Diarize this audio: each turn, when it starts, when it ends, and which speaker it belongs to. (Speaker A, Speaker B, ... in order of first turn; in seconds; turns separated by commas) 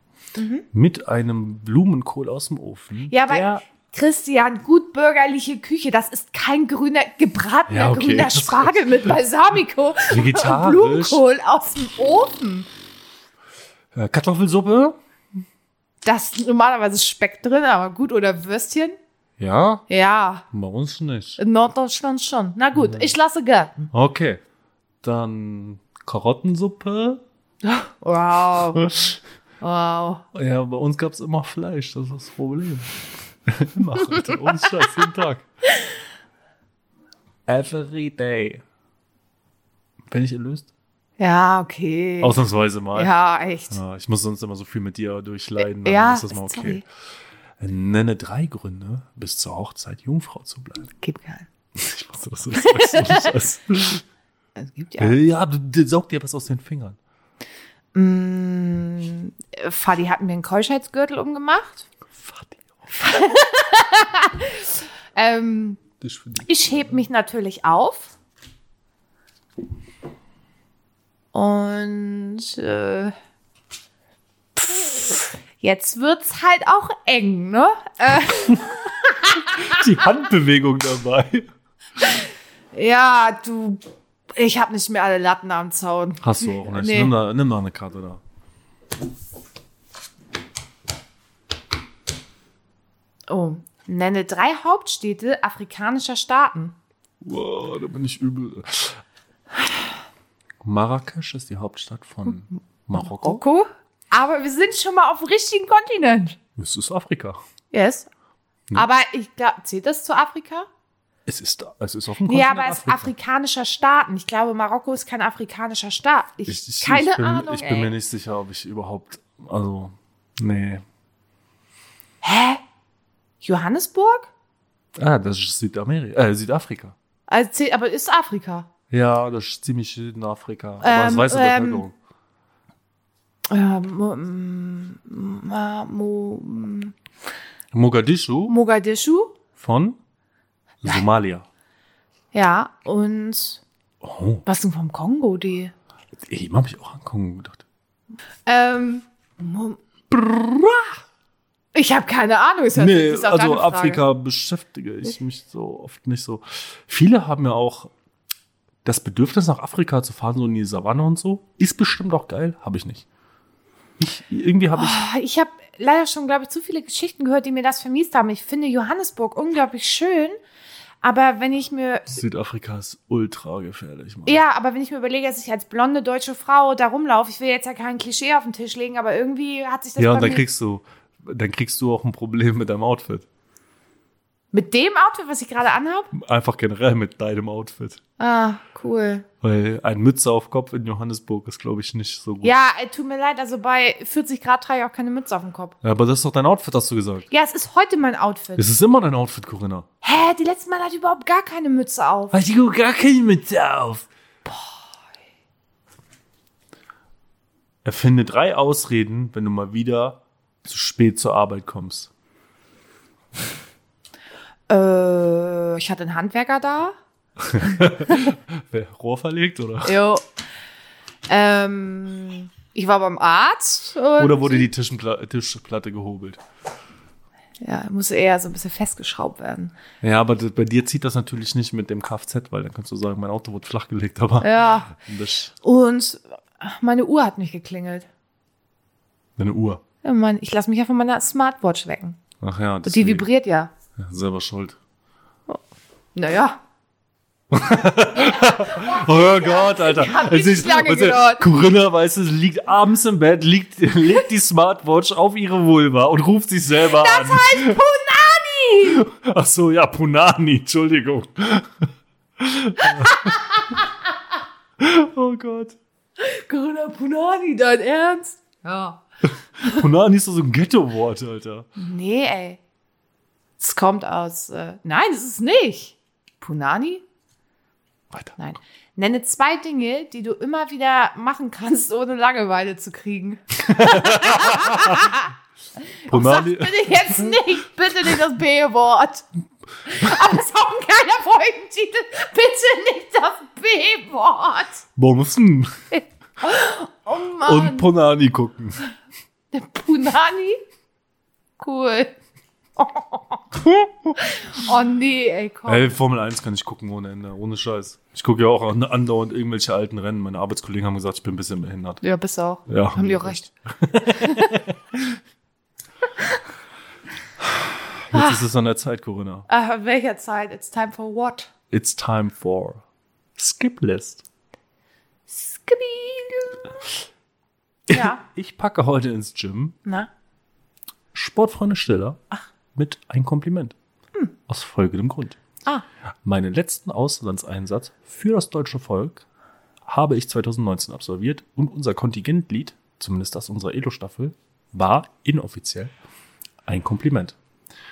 Speaker A: 0.4-0.7, Speaker B: 0.7-3.6, Speaker A: 3.1-12.7, Speaker B: 7.7-9.1, Speaker B: 10.1-11.2, Speaker B: 13.9-15.0, Speaker A: 16.0-19.0, Speaker B: 19.4-19.9, Speaker A: 19.9-20.4, Speaker B: 20.5-21.4, Speaker A: 21.4-23.9, Speaker B: 23.9-24.4, Speaker B: 25.0-27.2, Speaker A: 27.6-28.9, Speaker B: 28.8-29.2, Speaker A: 29.6-30.2, Speaker B: 30.3-35.5, Speaker B: 37.5-38.6, Speaker B: 40.1-40.7, Speaker A: 41.2-42.4, Speaker B: 42.2-43.1, Speaker A: 43.0-43.8, Speaker B: 43.7-46.8, Speaker A: 45.8-46.9, Speaker B: 47.6-50.9, Speaker A: 51.0-51.5, Speaker B: 51.8-54.0, Speaker A: 52.6-53.3, Speaker A: 54.6-55.2, Speaker B: 55.0-57.0, Speaker A: 57.9-61.9, Speaker B: 62.1-62.7, Speaker A: 62.9-65.8, Speaker B: 66.0-67.0, Speaker A: 66.5-68.1, Speaker A: 71.3-73.2, Speaker A: 74.6-79.9, Speaker B: 79.4-81.5, Speaker A: 82.0-83.8, Speaker A: 84.3-87.1, Speaker B: 86.2-88.2, Speaker A: 93.3-96.8, Speaker B: 97.2-99.0, Speaker B: 100.6-103.4, Speaker A: 103.0-106.4, Speaker B: 106.6-107.4, Speaker A: 107.7-108.1, Speaker A: 108.7-110.7, Speaker B: 111.3-113.1, Speaker A: 112.3-117.9, Speaker B: 116.5-120.8, Speaker A: 122.2-122.6, Speaker A: 123.4-124.3, Speaker B: 125.0-127.0, Speaker A: 127.3-128.7, Speaker B: 128.9-131.9, Speaker A: 130.8-131.8, Speaker A: 133.5-136.9, Speaker B: 137.7-138.5, Speaker A: 138.5-139.4, Speaker B: 139.6-140.0, Speaker B: 140.8-141.5, Speaker A: 142.3-143.6, Speaker B: 144.0-144.4, Speaker A: 144.5-145.7, Speaker B: 146.3-147.7, Speaker A: 148.5-149.8, Speaker B: 150.1-151.0, Speaker A: 151.7-154.0, Speaker B: 152.7-157.9, Speaker B: 158.8-163.1, Speaker B: 164.0-165.0, Speaker A: 164.8-170.4, Speaker A: 171.0-172.2, Speaker B: 172.1-174.4, Speaker A: 174.3-180.4, Speaker B: 180.0-183.3, Speaker A: 184.5-186.1, Speaker B: 186.1-188.0, Speaker A: 188.2-189.3, Speaker B: 189.4-192.6, Speaker A: 192.4-195.8, Speaker B: 195.8-197.3, Speaker A: 197.3-198.7, Speaker B: 198.6-199.9, Speaker A: 200.0-202.4, Speaker B: 202.3-204.1, Speaker A: 204.5-204.7, Speaker B: 207.8-212.1, Speaker A: 214.7-217.0, Speaker B: 217.4-220.0, Speaker A: 217.6-218.3, Speaker A: 219.8-220.2, Speaker A: 221.3-224.7, Speaker B: 224.2-226.4, Speaker A: 227.6-229.7, Speaker B: 230.0-235.5, Speaker A: 234.4-235.0, Speaker A: 235.6-238.1, Speaker B: 239.4-239.8, Speaker A: 240.0-242.2, Speaker B: 242.4-243.3, Speaker A: 242.8-243.7, Speaker B: 244.0-244.8, Speaker A: 246.2-246.6, Speaker B: 247.5-257.8, Speaker A: 248.3-251.5, Speaker A: 256.8-259.0, Speaker B: 258.9-263.4, Speaker A: 262.8-263.9, Speaker B: 264.8-265.8, Speaker A: 266.2-269.0, Speaker B: 269.6-271.7, Speaker A: 271.8-272.6, Speaker A: 273.6-277.0, Speaker B: 278.1-278.4, Speaker A: 278.4-285.3, Speaker B: 283.7-285.1, Speaker A: 286.0-289.3, Speaker B: 286.1-287.4, Speaker A: 289.9-294.8, Speaker B: 295.0-295.8, Speaker A: 295.9-297.9, Speaker B: 297.4-298.9, Speaker A: 299.5-300.6, Speaker A: 301.6-302.1, Speaker A: 302.8-303.4, Speaker B: 303.6-304.2, Speaker A: 304.2-305.9, Speaker B: 305.7-312.0, Speaker A: 312.0-313.5, Speaker B: 312.7-315.2, Speaker A: 314.0-314.7, Speaker B: 317.4-319.5, Speaker A: 318.1-318.4, Speaker A: 319.5-321.5, Speaker B: 321.7-322.8, Speaker B: 323.4-324.2, Speaker A: 325.3-326.9, Speaker B: 327.9-329.8, Speaker A: 327.9-328.2, Speaker B: 331.1-332.2, Speaker B: 332.8-333.8, Speaker B: 334.5-335.4, Speaker B: 336.2-339.2, Speaker B: 339.9-345.9, Speaker B: 346.7-347.4